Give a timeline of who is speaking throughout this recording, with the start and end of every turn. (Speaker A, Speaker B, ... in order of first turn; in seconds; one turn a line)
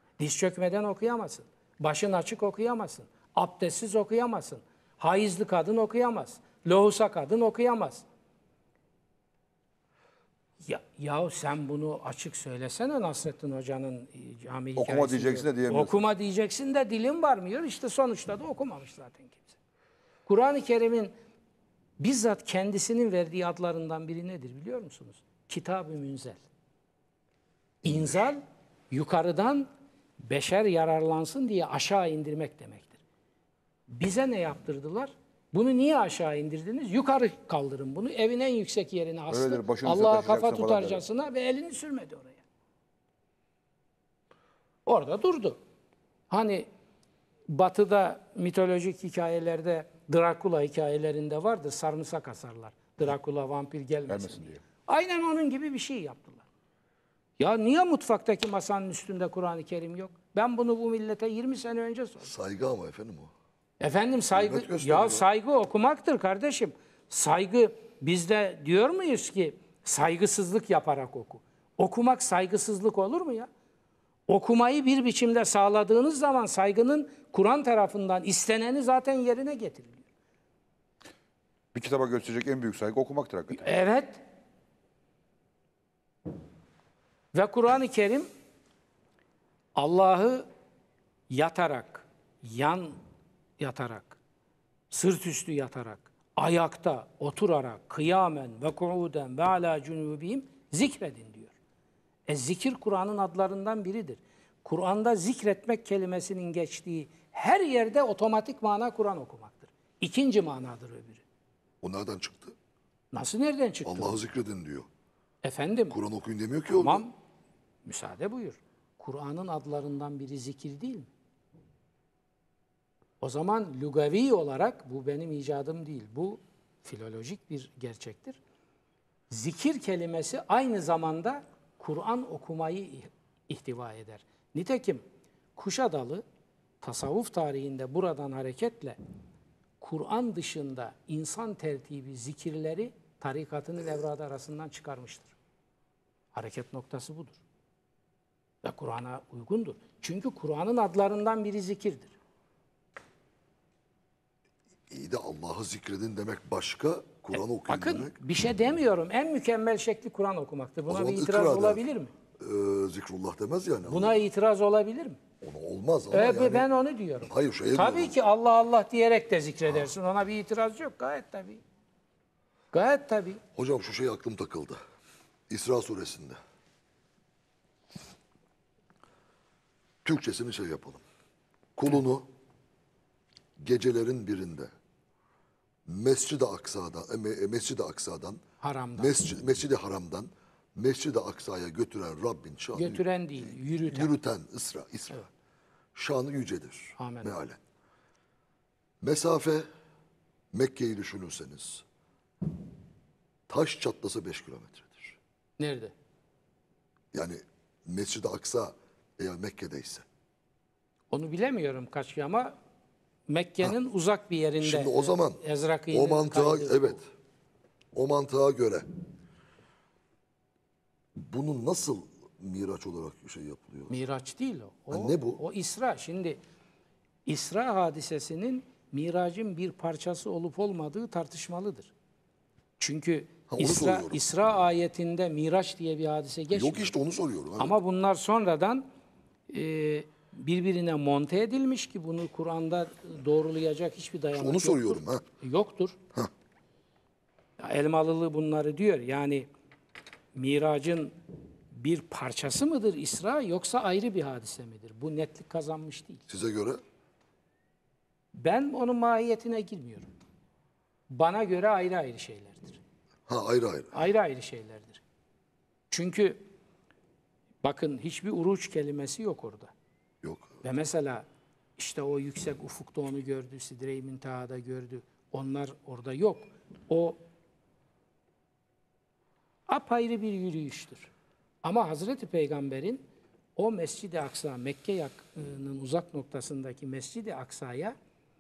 Speaker A: 0.2-8.1
Speaker A: 10.7-19.6
Speaker B: 14.8-15.9
Speaker A: 20.3-21.1
Speaker A: 22.0-26.4
Speaker A: 27.8-29.7
Speaker A: 30.2-33.0
Speaker A: 33.9-42.4
Speaker B: 39.3-41.0
Speaker A: 44.9-45.6
Speaker A: 46.3-46.7
Speaker A: 47.5-56.4
Speaker B: 54.1-54.6
Speaker A: 57.4-62.3
Speaker C: 62.2-63.3
Speaker A: 63.8-73.5
Speaker C: 64.3-65.2
Speaker A: 74.3-80.0
Speaker B: 81.7-83.7
Speaker A: 83.5-84.2
Speaker A: 87.3-88.3
Speaker A: 89.8-90.5
Speaker A: 91.3-93.0
Speaker A: 93.6-94.2
Speaker A: 94.9-101.5
Speaker A: 102.3-111.2
Speaker C: 111.8-112.5
Speaker A: 113.1-114.2
Speaker C: 113.8-114.9
Speaker A: 115.4-116.0
Speaker C: 115.9-117.0
Speaker A: 116.7-117.1
Speaker A: 117.8-121.1
Speaker A: 123.2-128.4
Speaker A: 129.3-135.0
Speaker A: 135.6-136.2
Speaker A: 136.8-139.0
Speaker A: 139.8-145.3
Speaker A: 146.3-147.4
Speaker A: 148.6-152.1
Speaker C: 154.9-158.2
Speaker A: 157.4-162.1
Speaker C: 160.9-161.8
Speaker C: 162.4-164.2
Speaker A: 163.8-165.2
Speaker C: 165.4-166.7
Speaker A: 166.1-171.6
Speaker C: 167.2-168.2
Speaker A: 172.7-173.4
Speaker C: 173.6-174.8
Speaker C: 175.5-176.4
Speaker C: 180.0-181.0
Speaker C: 181.8-182.3
Speaker C: 183.6-184.7
Speaker C: 185.9-188.4
Speaker A: 188.6-189.2
Speaker C: 189.0-195.3
Speaker A: 192.8-194.2
Speaker C: 195.9-197.6
Speaker A: 197.0-197.4
Speaker C: 199.0-199.7
Speaker C: 200.5-201.8
Speaker C: 203.5-205.2
Speaker A: 205.6-205.9
Speaker C: 207.1-210.1
Speaker A: 211.1-212.5
Speaker A: 213.3-217.0
Speaker C: 214.6-217.0
Speaker C: 217.9-218.8
Speaker C: 221.2-223.9
Speaker A: 223.9-226.4
Speaker C: 224.9-225.4
Speaker A: 227.3-231.9
Speaker A: 232.8-236.9
Speaker C: 233.5-234.2
Speaker C: 236.5-237.8
Speaker A: 237.6-238.9
Speaker A: 239.5-246.0
Speaker C: 244.3-245.2
Speaker A: 247.6-249.5
Speaker A: 250.3-251.1
Speaker A: 251.7-256.3
Speaker C: 256.3-256.8
Speaker A: 258.3-260.1
Speaker A: 261.1-262.8
Speaker C: 263.3-263.9
Speaker A: 263.9-265.0
Speaker A: 265.9-266.5
Speaker A: 267.6-269.7
Speaker C: 270.2-270.6
Speaker A: 270.6-271.3
Speaker A: 271.8-277.2
Speaker A: 279.7-281.1
Speaker A: 281.6-283.1
Speaker A: 283.6-287.9